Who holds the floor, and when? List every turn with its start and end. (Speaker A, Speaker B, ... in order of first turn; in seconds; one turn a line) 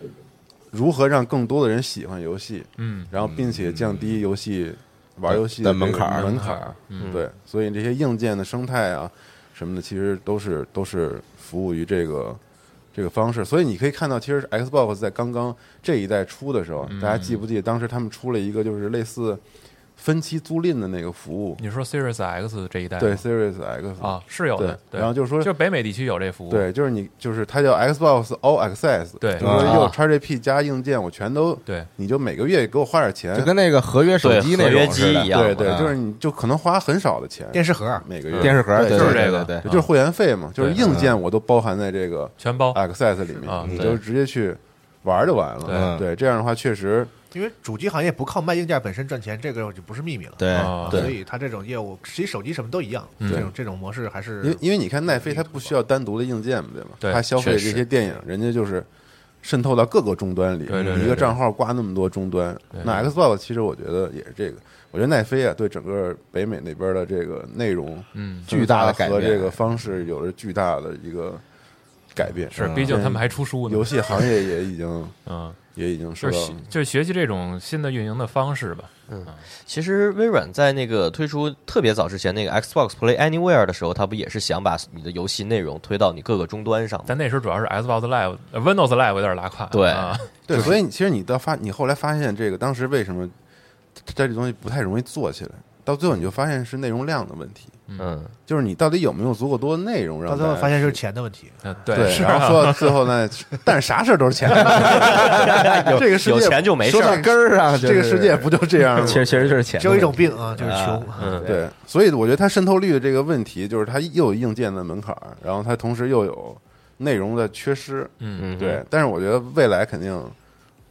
Speaker A: 0.7-12.4
Speaker B: 2.8-3.1
Speaker C: 5.3-6.3
Speaker B: 6.1-7.1
Speaker D: 7.0-7.3
Speaker A: 12.9-19.4
Speaker B: 16.9-17.4
Speaker A: 20.0-21.6
Speaker B: 21.6-23.2
Speaker A: 23.0-25.5
Speaker B: 24.0-26.7
Speaker A: 26.5-33.5
Speaker B: 29.2-29.6
Speaker C: 29.4-29.9
Speaker D: 29.5-30.0
Speaker C: 33.3-36.0
Speaker D: 34.2-35.7
Speaker A: 35.3-47.1
Speaker E: 37.5-38.0
Speaker D: 38.3-38.6
Speaker C: 38.4-39.6
Speaker B: 38.8-39.9
Speaker B: 40.6-41.0
Speaker C: 40.8-41.2
Speaker B: 42.4-42.8
Speaker B: 43.4-43.8
Speaker C: 43.6-44.0
Speaker B: 45.6-45.9
Speaker C: 45.7-46.1
Speaker E: 47.3-55.7
Speaker C: 50.4-51.1
Speaker B: 50.5-51.1
Speaker D: 50.9-51.1
Speaker B: 53.2-53.5
Speaker A: 53.3-53.5
Speaker A: 54.4-58.9
Speaker D: 57.4-57.9
Speaker A: 59.4-71.4
Speaker B: 60.7-61.4
Speaker B: 62.7-63.1
Speaker B: 68.1-68.5
Speaker C: 68.5-69.6
Speaker A: 72.2-75.2
Speaker B: 72.5-74.4
Speaker C: 72.6-73.0
Speaker B: 75.3-75.6
Speaker A: 75.8-76.6
Speaker B: 76.2-79.4
Speaker D: 79.1-87.1
Speaker B: 87.1-90.7
Speaker D: 89.7-90.8
Speaker A: 90.5-93.3
Speaker A: 94.0-97.8
Speaker D: 98.0-98.3
Speaker A: 98.5-101.0
Speaker E: 100.3-102.8
Speaker B: 101.6-103.0
Speaker A: 101.9-107.1
Speaker E: 104.6-105.2
Speaker C: 104.6-106.1
Speaker D: 105.2-107.3
Speaker E: 105.9-107.2
Speaker C: 106.8-111.1
Speaker A: 107.7-109.5
Speaker E: 107.8-111.6
Speaker D: 111.2-111.5
Speaker A: 111.4-120.3
Speaker B: 118.2-118.5
Speaker D: 118.4-118.8